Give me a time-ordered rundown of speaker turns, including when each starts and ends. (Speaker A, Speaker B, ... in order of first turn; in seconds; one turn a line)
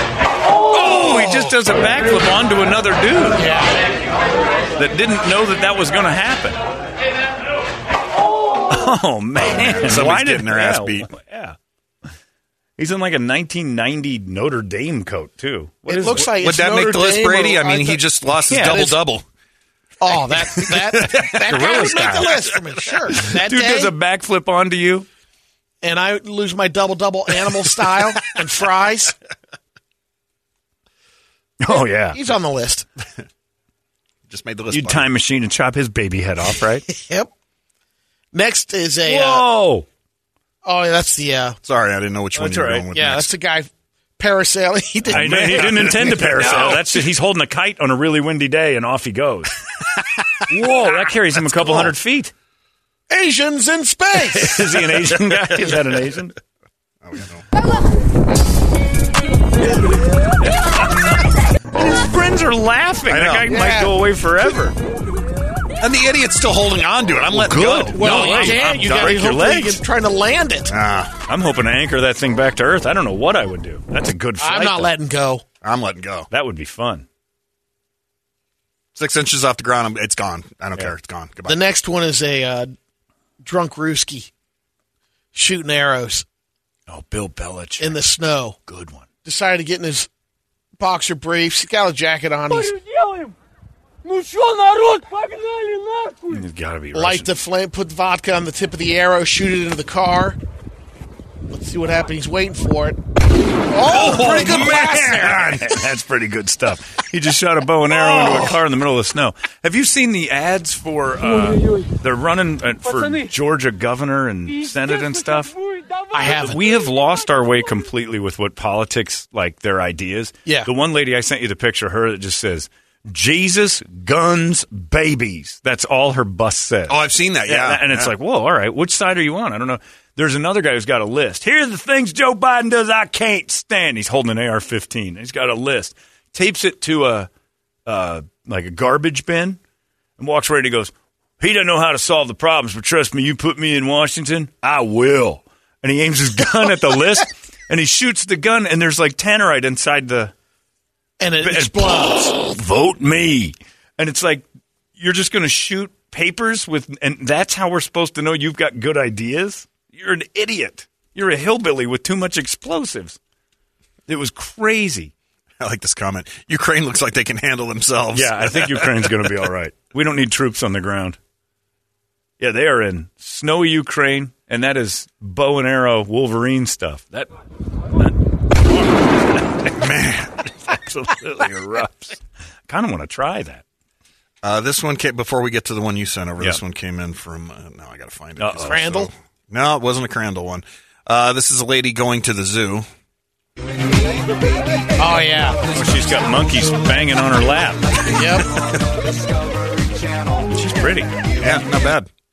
Speaker A: 0.7-3.5
Speaker B: 1.2-1.5
Speaker B: 3.4-3.8
Speaker A: 4.8-6.6
Speaker A: 8.7-11.6
Speaker C: 9.4-11.1
Speaker A: 12.8-16.3
Speaker B: 15.9-18.1
Speaker C: 16.3-19.2
Speaker A: 18.5-18.8
Speaker B: 18.6-19.0
Speaker B: 20.0-23.9
Speaker C: 20.6-22.1
Speaker A: 21.2-22.4
Speaker A: 23.1-25.1
Speaker B: 25.8-29.2
Speaker A: 31.6-32.2
Speaker B: 31.7-32.9
Speaker C: 34.3-35.1
Speaker A: 34.7-36.9
Speaker B: 36.9-37.3
Speaker B: 38.3-39.5
Speaker A: 39.0-39.9
Speaker B: 40.6-41.6
Speaker C: 41.6-43.3
Speaker A: 42.3-42.9
Speaker B: 42.9-47.0
Speaker A: 45.1-49.6
Speaker C: 45.1-46.7
Speaker A: 50.5-52.3
Speaker B: 53.1-54.8
Speaker A: 54.2-56.4
Speaker C: 57.0-57.4
Speaker A: 60.4-64.8
Speaker C: 63.1-63.5
Speaker B: 63.5-63.9
Speaker C: 65.8-68.6
Speaker A: 67.3-69.8
Speaker B: 67.9-70.8
Speaker C: 70.7-71.1
Speaker A: 71.3-74.9
Speaker B: 74.4-75.5
Speaker C: 75.6-76.3
Speaker A: 76.3-77.1
Speaker C: 79.0-81.6
Speaker B: 81.5-82.7
Speaker B: 83.4-84.3
Speaker B: 85.3-86.2
Speaker A: 86.9-88.0
Speaker B: 87.8-88.6
Speaker A: 88.7-89.1
Speaker B: 89.2-90.1
Speaker B: 90.8-92.8
Speaker A: 96.2-97.3
Speaker B: 96.9-100.4
Speaker B: 101.5-103.0
Speaker B: 103.7-105.6
Speaker A: 103.9-115.6
Speaker C: 103.9-105.7
Speaker B: 116.1-116.6
Speaker A: 116.2-137.3
Speaker C: 126.9-128.1
Speaker A: 137.9-139.6
Speaker A: 140.2-150.3
Speaker B: 151.2-152.3
Speaker A: 151.4-154.4
Speaker A: 155.0-163.2
Speaker A: 164.1-165.1
Speaker C: 165.6-169.1
Speaker A: 168.1-171.2
Speaker A: 172.4-177.3
Speaker A: 177.9-179.9
Speaker C: 179.8-180.4
Speaker A: 180.7-183.6
Speaker C: 184.4-192.9
Speaker A: 188.4-189.1
Speaker B: 188.6-189.1
Speaker B: 195.0-195.6
Speaker A: 195.7-198.1
Speaker B: 198.1-198.6
Speaker A: 200.5-201.2
Speaker C: 201.4-202.1